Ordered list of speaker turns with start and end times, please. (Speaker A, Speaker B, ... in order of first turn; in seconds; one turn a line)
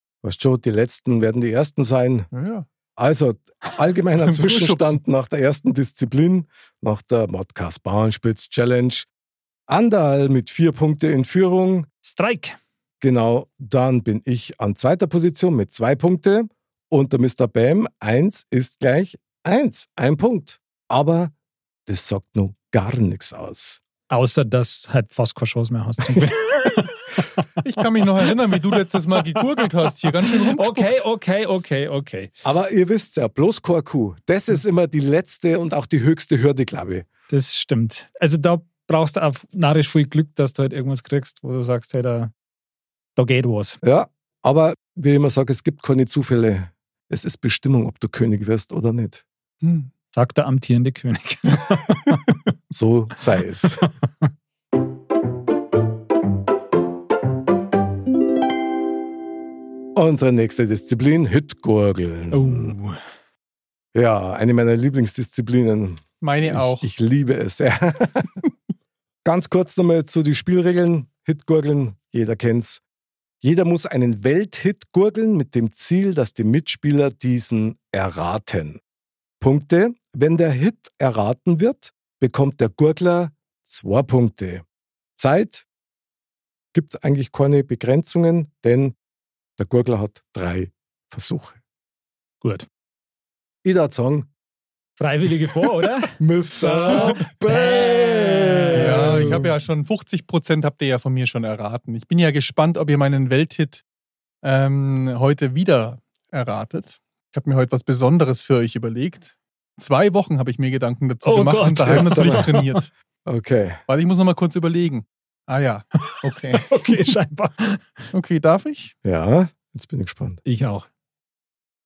Speaker A: 0.2-2.3
Speaker B: 2.3-2.7
Speaker A: 3.0-9.1
Speaker B: 4.2-5.0
Speaker A: 9.7-11.9
Speaker C: 12.0-12.6
Speaker A: 13.0-21.3
Speaker A: 21.9-23.8
Speaker C: 24.1-27.4
Speaker B: 27.6-31.0
Speaker C: 29.2-29.5
Speaker C: 30.1-32.3
Speaker A: 32.4-37.1
Speaker C: 37.3-42.3
Speaker C: 43.2-43.8
Speaker A: 43.8-49.2
Speaker B: 49.6-49.9
Speaker C: 50.1-52.2
Speaker A: 52.7-53.8
Speaker C: 53.8-54.2
Speaker A: 60.0-62.8
Speaker C: 62.3-63.0
Speaker A: 63.9-68.3
Speaker B: 66.2-66.9
Speaker A: 69.2-72.8
Speaker A: 73.4-78.8
Speaker A: 79.4-84.7
Speaker A: 85.2-85.7
Speaker A: 86.7-89.0
Speaker A: 89.6-91.6
Speaker C: 92.4-92.7
Speaker A: 93.6-94.3
Speaker C: 95.0-99.4
Speaker A: 96.2-99.5
Speaker B: 96.8-97.2
Speaker B: 98.7-103.8
Speaker B: 104.4-112.9
Speaker C: 111.2-112.8
Speaker A: 111.9-112.5
Speaker A: 113.3-113.8
Speaker B: 113.9-117.1
Speaker C: 116.7-118.1
Speaker B: 118.1-118.9
Speaker A: 119.0-120.4
Speaker C: 120.5-120.9